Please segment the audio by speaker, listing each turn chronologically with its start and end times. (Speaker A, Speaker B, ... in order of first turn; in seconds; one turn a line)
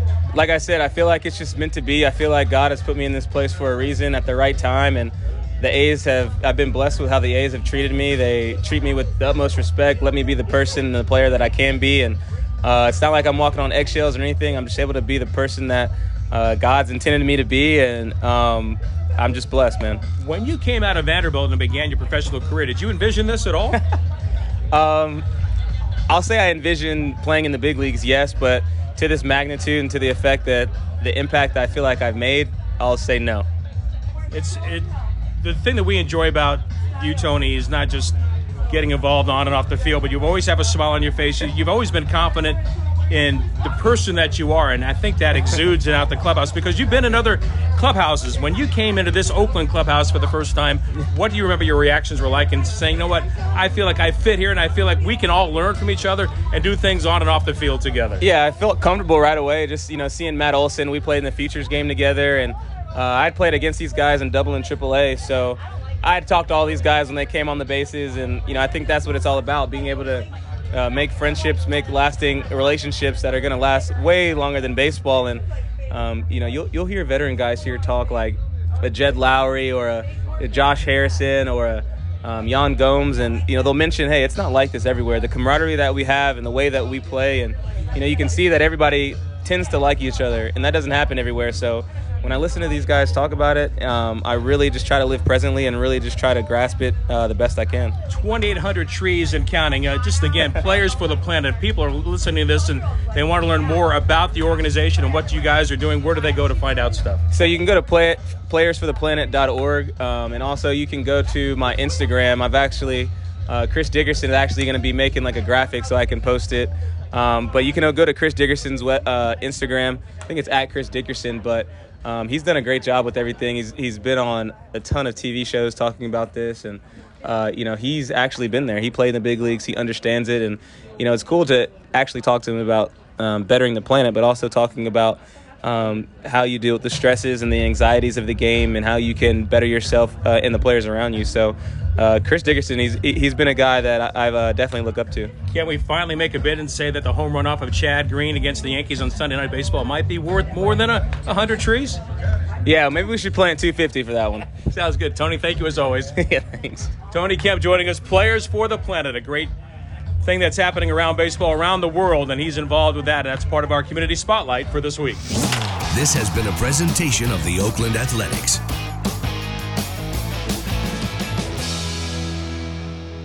Speaker A: 0.3-20.0
Speaker B: 20.2-23.8
Speaker A: 24.7-25.2
Speaker A: 26.1-33.5
Speaker B: 34.3-38.1
Speaker B: 38.7-58.2
Speaker A: 58.2-97.9
Speaker B: 98.1-107.2
Speaker A: 107.3-145.3
Speaker B: 145.5-152.0
Speaker A: 152.6-154.5
Speaker B: 154.7-156.1
Speaker A: 156.2-156.9
Speaker B: 157.1-159.5
Speaker B: 160.2-165.2
Speaker C: 165.9-168.4